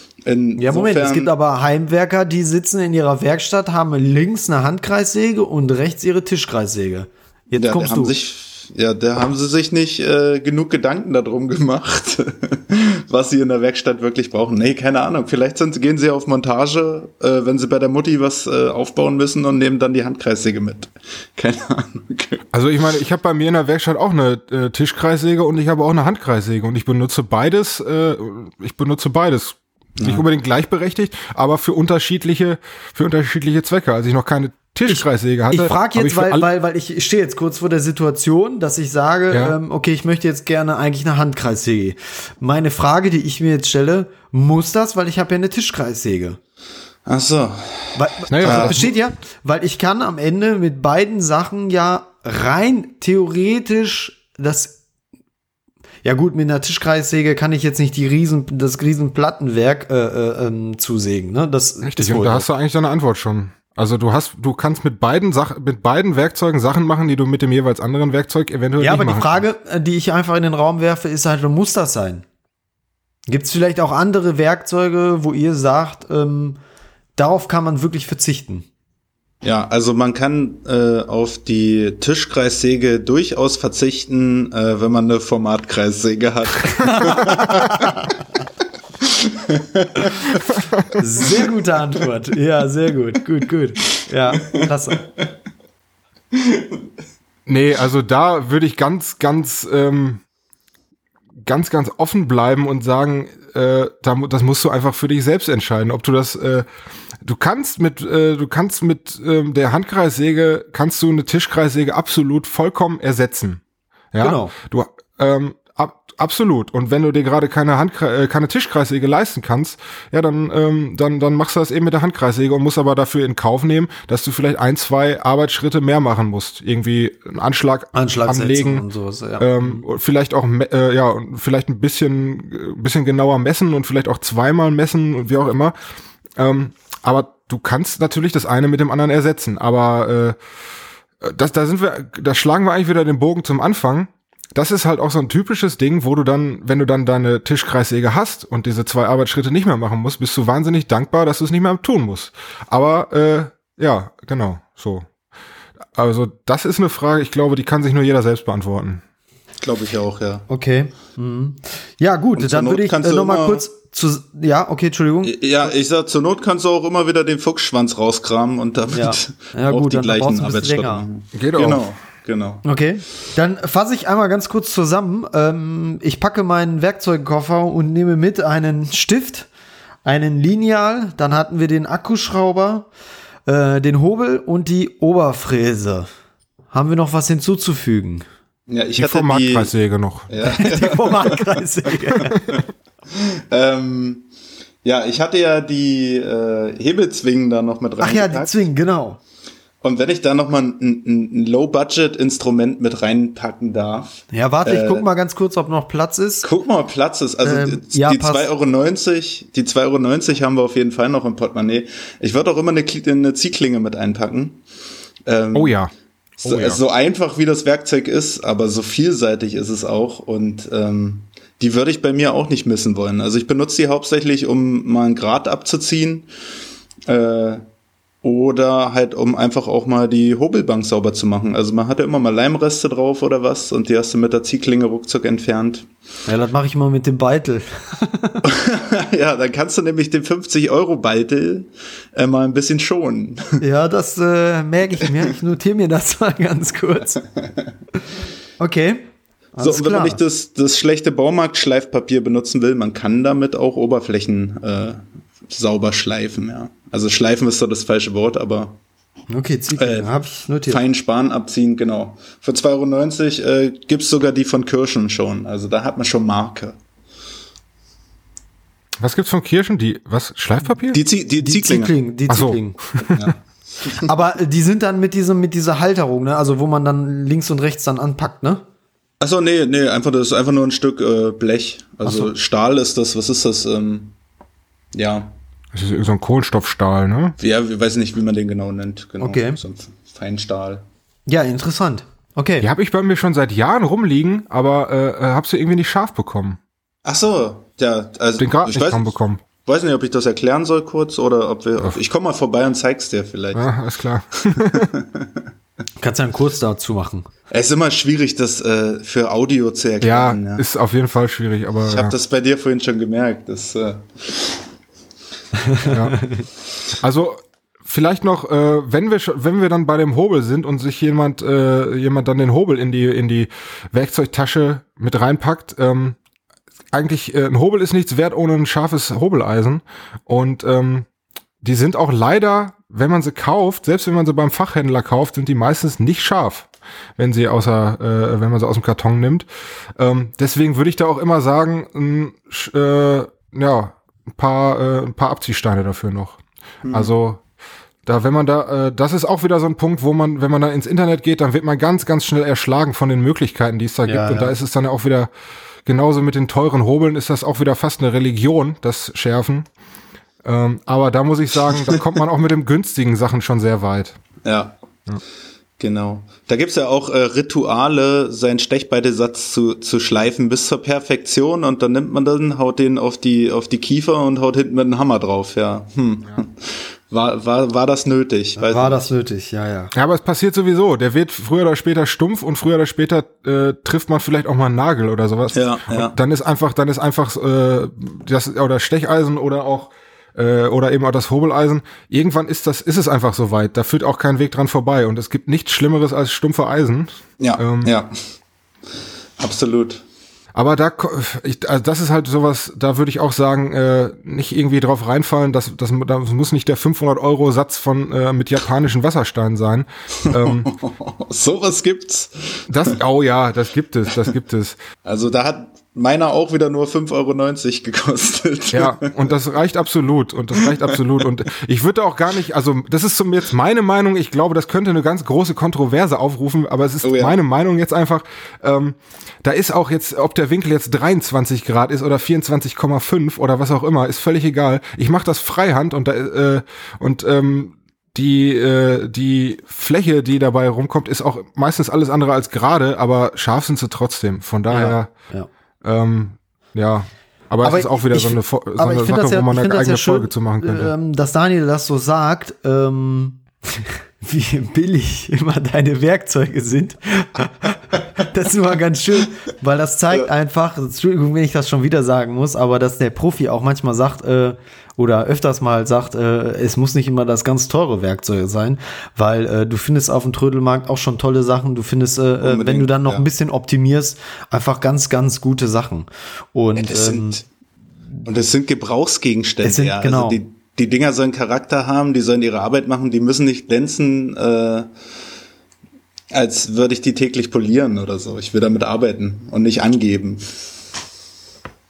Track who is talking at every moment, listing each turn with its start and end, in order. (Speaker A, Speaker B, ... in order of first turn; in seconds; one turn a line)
Speaker A: 0.2-1.3
Speaker B: 0.6-8.1
Speaker A: 7.6-22.4
Speaker C: 22.5-36.5
Speaker A: 30.0-30.2
Speaker B: 34.9-46.4
Speaker A: 47.1-48.8
Speaker B: 48.0-54.8
Speaker C: 48.3-48.9
Speaker B: 56.0-62.5
Speaker C: 61.8-69.4
Speaker B: 68.8-72.2
Speaker B: 73.3-76.6
Speaker B: 77.2-78.7
Speaker A: 79.4-88.0
Speaker B: 86.8-88.1
Speaker A: 89.3-90.2
Speaker B: 91.0-95.0
Speaker A: 96.3-96.8
Speaker C: 97.5-100.2
Speaker C: 101.4-106.7
Speaker C: 107.2-113.6
Speaker C: 114.1-128.8
Speaker B: 114.2-114.5
Speaker B: 128.0-129.8
Speaker C: 129.4-135.8
Speaker C: 136.4-140.4
Speaker C: 141.2-155.1
Speaker C: 155.9-159.0
Speaker A: 159.6-160.5
Speaker B: 160.5-165.7
Speaker A: 162.4-163.6
Speaker A: 165.2-172.6
Speaker B: 168.9-171.0
Speaker C: 171.3-171.8
Speaker B: 172.6-179.5
Speaker B: 180.1-182.9
Speaker B: 183.5-186.1
Speaker B: 186.7-188.2
Speaker A: 188.7-189.7
Speaker C: 189.0-190.3
Speaker A: 190.3-191.4
Speaker B: 190.5-192.4
Speaker A: 192.1-194.3
Speaker A: 194.8-198.7
Speaker B: 198.0-199.2
Speaker A: 199.8-205.1
Speaker B: 204.3-206.5
Speaker A: 206.4-214.6
Speaker B: 207.4-208.5
Speaker A: 215.3-215.8
Speaker C: 215.5-215.9
Speaker A: 216.4-226.3
Speaker C: 216.4-216.8
Speaker A: 227.1-227.6
Speaker A: 228.2-235.9
Speaker B: 236.3-238.4
Speaker A: 238.4-243.6
Speaker B: 243.6-247.2
Speaker B: 248.6-249.1
Speaker B: 249.6-250.2
Speaker A: 249.6-258.8
Speaker B: 259.3-260.8
Speaker A: 259.8-260.1
Speaker A: 260.7-266.8
Speaker C: 269.0-271.0
Speaker A: 270.9-271.9
Speaker B: 271.4-273.1
Speaker C: 272.3-273.1
Speaker A: 273.2-274.0
Speaker B: 273.9-278.6
Speaker A: 279.2-284.1
Speaker B: 282.1-282.3
Speaker A: 284.9-285.3
Speaker C: 285.7-287.4
Speaker A: 287.4-290.9
Speaker B: 289.2-289.6
Speaker B: 291.3-292.7
Speaker C: 292.6-296.6
Speaker A: 297.1-299.1
Speaker C: 298.4-299.4
Speaker A: 299.6-303.6
Speaker C: 303.5-304.9
Speaker A: 304.6-305.5
Speaker B: 306.0-307.3
Speaker A: 307.5-310.6
Speaker C: 310.0-312.1
Speaker A: 311.8-314.6
Speaker B: 315.6-316.5
Speaker C: 315.8-316.2
Speaker C: 317.0-326.2
Speaker C: 326.9-331.1
Speaker C: 331.6-339.5
Speaker C: 340.0-346.4
Speaker A: 346.9-347.1
Speaker C: 346.9-347.4
Speaker C: 348.1-355.3
Speaker B: 354.1-354.5
Speaker C: 355.9-359.7
Speaker C: 360.4-364.2
Speaker A: 364.4-364.8
Speaker A: 365.8-379.1
Speaker B: 378.6-379.9
Speaker C: 379.9-397.9
Speaker A: 385.5-386.2
Speaker A: 397.4-398.1
Speaker A: 399.4-400.0
Speaker C: 400.5-410.7
Speaker A: 410.3-413.0
Speaker C: 412.7-414.8
Speaker A: 415.1-419.3
Speaker C: 418.7-445.1
Speaker A: 420.6-421.0
Speaker A: 427.0-427.4
Speaker B: 444.7-445.5
Speaker C: 445.8-450.9
Speaker B: 447.6-477.4
Speaker A: 472.4-473.3
Speaker A: 476.8-477.4
Speaker A: 478.2-484.9
Speaker B: 479.6-480.4
Speaker A: 486.3-490.4